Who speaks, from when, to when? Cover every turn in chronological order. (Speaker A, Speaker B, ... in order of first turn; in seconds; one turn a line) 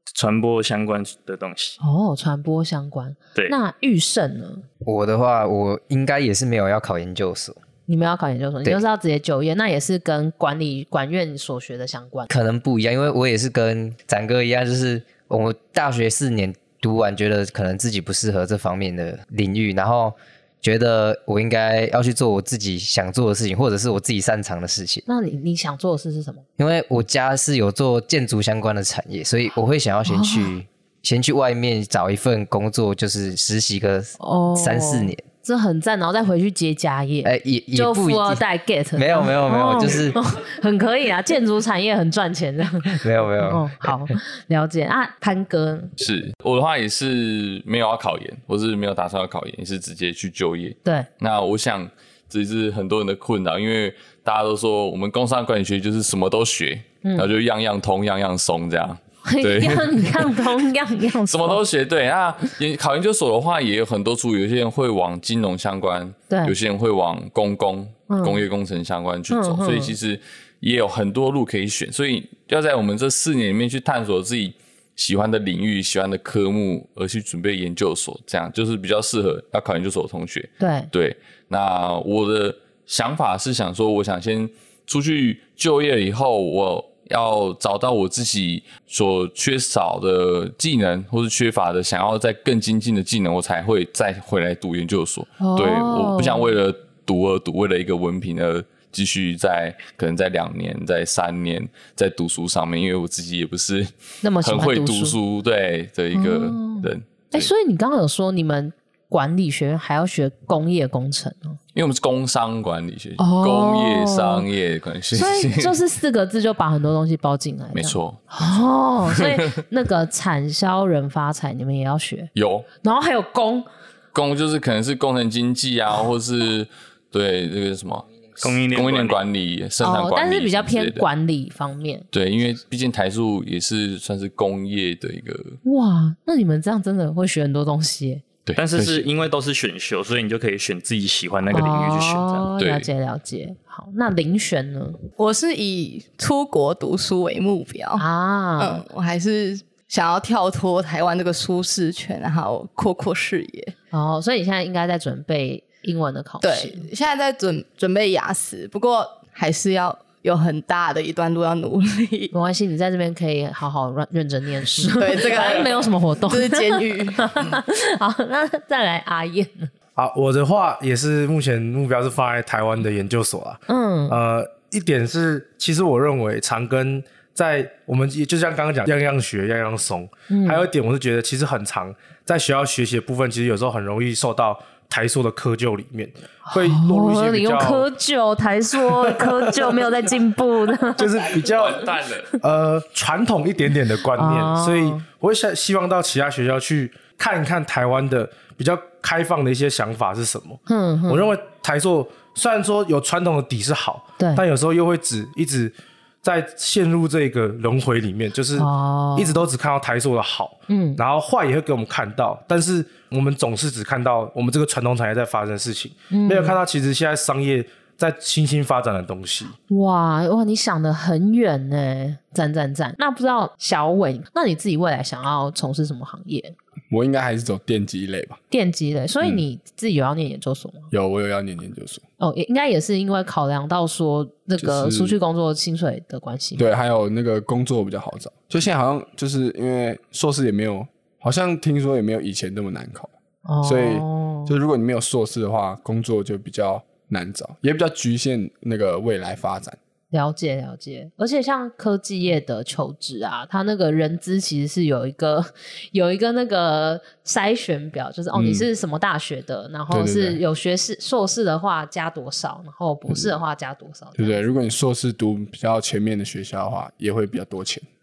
Speaker A: 0.1-1.8
Speaker B: 1.8-4.6
Speaker C: 4.8-7.6
Speaker B: 7.9-12.3
Speaker C: 12.3-25.0
Speaker B: 25.1-26.4
Speaker C: 26.6-35.2
Speaker B: 30.1-30.5
Speaker B: 34.2-45.9
Speaker C: 37.2-38.4
Speaker C: 38.9-40.2
Speaker C: 43.0-44.1
Speaker D: 46.0-60.5
Speaker B: 57.0-57.3
Speaker B: 59.2-61.6
Speaker D: 61.3-107.5
Speaker B: 66.3-66.5
Speaker B: 68.1-68.4
Speaker B: 69.3-70.0
Speaker B: 80.6-80.9
Speaker B: 95.4-96.5
Speaker B: 104.2-105.2
Speaker B: 106.1-111.6
Speaker D: 111.7-115.8
Speaker B: 113.2-114.5
Speaker B: 115.1-122.3
Speaker D: 117.7-119.6
Speaker D: 122.3-122.7
Speaker B: 122.8-123.7
Speaker D: 124.1-131.1
Speaker A: 128.4-129.2
Speaker B: 129.8-132.0
Speaker D: 132.1-135.6
Speaker B: 135.6-138.2
Speaker D: 138.4-139.1
Speaker A: 138.6-142.5
Speaker B: 141.5-145.0
Speaker D: 142.6-142.9
Speaker E: 145.2-148.0
Speaker B: 148.0-148.8
Speaker E: 148.6-153.7
Speaker B: 153.9-156.8
Speaker E: 156.4-162.3
Speaker B: 162.3-169.7
Speaker E: 164.9-167.6
Speaker F: 169.9-187.9
Speaker B: 173.7-174.2
Speaker B: 180.3-180.7
Speaker B: 186.4-191.3
Speaker F: 188.8-189.8
Speaker F: 191.0-191.8
Speaker D: 191.5-192.3
Speaker F: 192.4-219.6
Speaker B: 194.1-195.0
Speaker B: 200.7-201.3
Speaker B: 204.2-204.4
Speaker B: 208.6-209.4
Speaker B: 210.7-211.0
Speaker B: 216.1-216.6
Speaker B: 219.7-226.5
Speaker G: 226.9-228.4
Speaker B: 228.5-230.9
Speaker G: 230.9-232.0
Speaker B: 232.2-236.6
Speaker G: 234.6-235.2
Speaker G: 236.6-243.1
Speaker B: 243.4-244.5
Speaker G: 243.6-249.8
Speaker B: 250.1-264.4
Speaker G: 258.3-258.7
Speaker G: 259.9-260.4
Speaker G: 263.1-263.3
Speaker G: 264.1-267.8